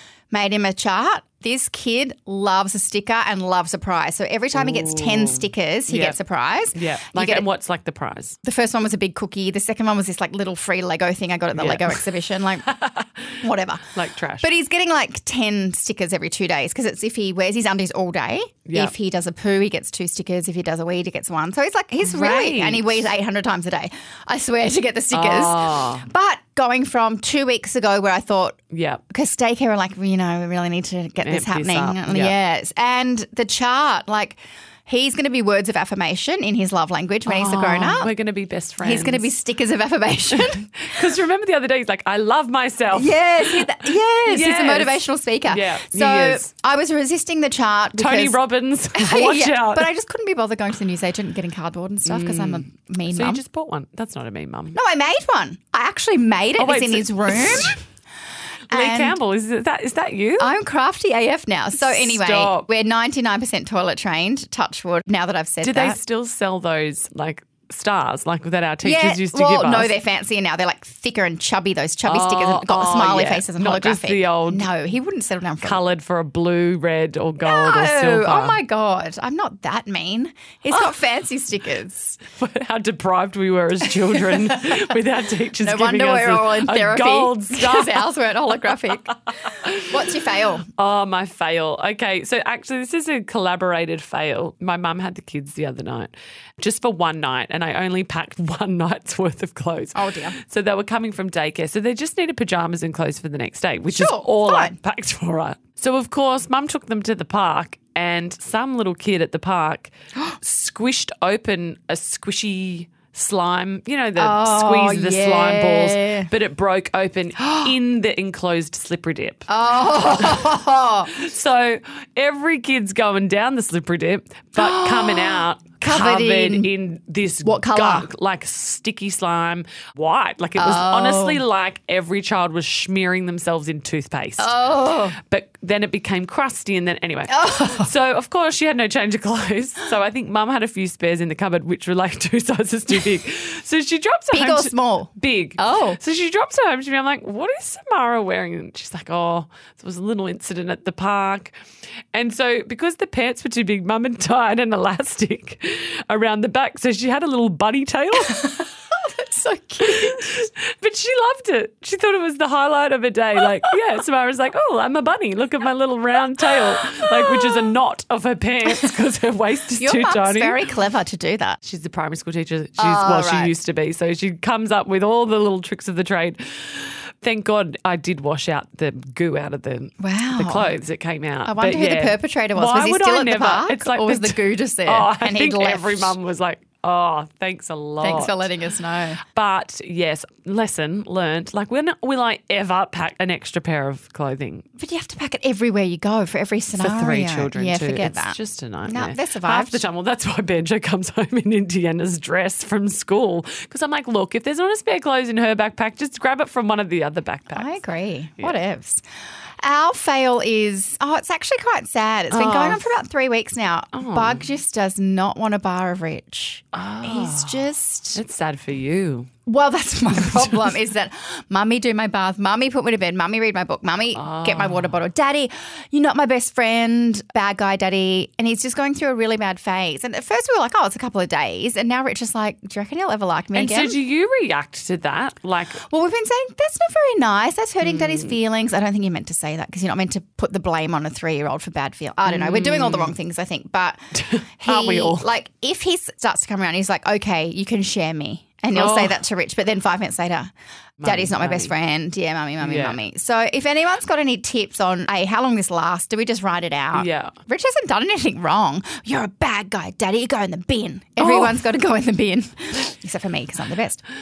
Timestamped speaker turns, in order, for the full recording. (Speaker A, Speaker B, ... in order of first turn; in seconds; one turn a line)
Speaker A: 0.3-7.5
Speaker B: 4.5-6.2
Speaker B: 6.7-8.4
Speaker A: 8.4-12.7
Speaker B: 11.6-12.0
Speaker B: 12.7-13.3
Speaker A: 13.4-13.9
Speaker B: 13.9-14.5
Speaker A: 14.4-28.6
Speaker B: 18.7-18.9
Speaker B: 22.0-23.1
Speaker B: 25.1-26.1
Speaker B: 28.7-29.0
Speaker A: 29.1-38.1
Speaker B: 31.2-32.4
Speaker B: 37.3-39.3
Speaker A: 38.8-40.9
Speaker B: 40.4-43.7
Speaker A: 42.9-48.4
Speaker B: 44.3-46.5
Speaker B: 48.0-49.9
Speaker A: 49.0-53.4
Speaker B: 52.1-54.8
Speaker A: 54.7-57.8
Speaker B: 56.6-57.8
Speaker A: 58.7-59.2
Speaker B: 58.7-60.5
Speaker A: 60.4-66.0
Speaker B: 61.8-62.7
Speaker B: 65.6-70.0
Speaker A: 68.8-75.8
Speaker B: 72.0-74.7
Speaker B: 75.6-78.6
Speaker A: 77.4-82.2
Speaker B: 82.2-88.1
Speaker A: 84.1-84.8
Speaker A: 85.6-90.7
Speaker B: 90.8-120.4
Speaker A: 99.9-100.4
Speaker A: 103.9-104.8
Speaker A: 114.2-116.3
Speaker A: 117.4-117.8
Speaker A: 119.5-121.1
Speaker B: 121.1-134.6
Speaker A: 124.6-126.7
Speaker A: 127.4-128.1
Speaker A: 130.6-131.4
Speaker A: 134.4-135.2
Speaker B: 135.2-151.6
Speaker A: 137.3-137.9
Speaker A: 144.3-146.0
Speaker B: 152.1-158.5
Speaker A: 158.2-160.3
Speaker B: 159.9-170.6
Speaker A: 167.1-167.7
Speaker A: 169.8-171.6
Speaker B: 171.6-188.5
Speaker A: 172.8-173.5
Speaker A: 180.0-180.7
Speaker A: 181.5-186.2
Speaker A: 188.0-189.2
Speaker B: 189.3-194.7
Speaker A: 194.8-199.9
Speaker B: 196.7-207.8
Speaker A: 207.5-209.0
Speaker A: 209.6-218.2
Speaker B: 212.3-213.0
Speaker B: 213.9-214.4
Speaker B: 216.7-219.3
Speaker A: 219.5-234.0
Speaker B: 224.2-224.9
Speaker B: 233.5-235.8
Speaker A: 235.9-244.0
Speaker B: 237.9-238.2
Speaker B: 242.3-243.1
Speaker B: 244.2-245.3
Speaker A: 244.6-250.5
Speaker B: 248.7-249.2
Speaker B: 251.0-251.7
Speaker A: 251.0-264.0
Speaker B: 252.6-253.0
Speaker B: 256.9-257.3
Speaker B: 261.2-261.6